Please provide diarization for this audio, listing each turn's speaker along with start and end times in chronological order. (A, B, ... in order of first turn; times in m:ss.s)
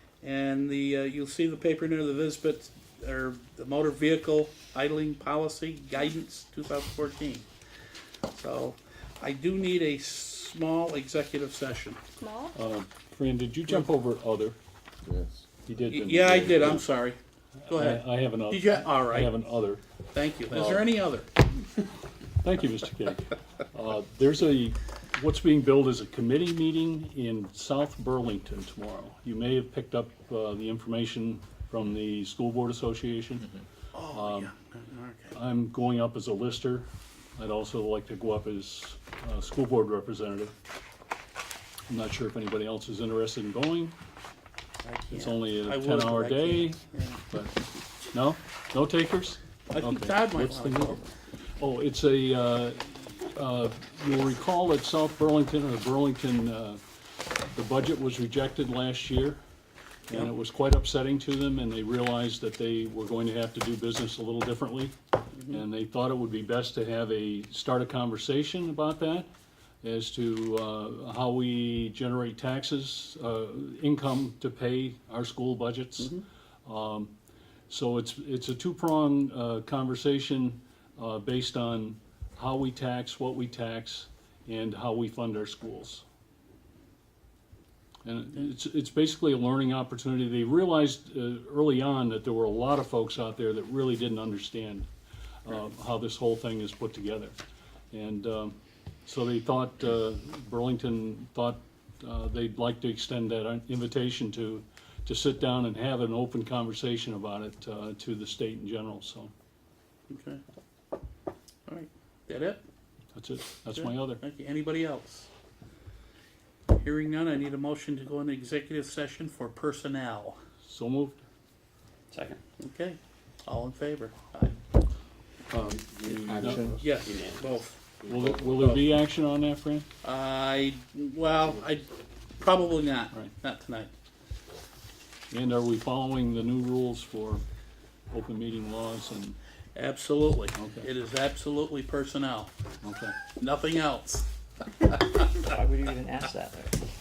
0:00.2-0:07.5 A
0:08.3-0:12.0 A
0:12.5-0:14.6 B
0:15.0-0:15.5 C
0:15.7-0:16.8 B
0:15.9-0:19.3 A
0:17.7-0:19.8 B
0:20.1-0:21.3 A
0:20.5-0:20.9 B
0:22.4-0:33.5 B
0:33.9-0:35.3 A
0:34.1-0:34.5 B
0:35.3-0:40.5 B
0:41.9-0:43.9 B
0:44.8-0:47.2 A
0:45.1-0:46.8 B
0:47.3-0:47.6 B
0:48.1-0:51.0 B
0:49.7-0:51.0 A
0:51.6-0:56.8 B
0:57.5-0:59.4 B
1:00.1-1:09.3 B
1:09.8-1:17.1 B
1:16.0-1:16.2 A
1:17.7-1:26.0 B
1:28.0-1:34.9 B
1:35.4-1:37.4 B
1:37.9-1:49.3 B
1:50.1-1:50.4 A
1:51.7-1:52.6 A
1:53.1-1:54.2 B
1:53.7-1:55.3 A
1:56.8-2:00.4 A
2:00.6-2:01.2 B
2:02.1-2:02.4 D
2:02.6-2:04.6 A
2:05.5-2:06.6 B
2:05.5-2:06.9 C
2:06.8-2:07.8 A
2:07.0-2:07.4 D
2:08.0-2:08.8 C
2:08.0-2:09.9 B
2:10.0-2:11.9 A
2:12.4-2:13.9 A
2:15.3-2:17.4 B
2:18.1-2:19.4 B
2:19.7-2:22.5 A
2:20.6-2:20.9 B
2:22.8-2:23.2 B
2:23.3-2:24.2 A
2:24.8-2:25.2 A
2:25.3-2:26.8 D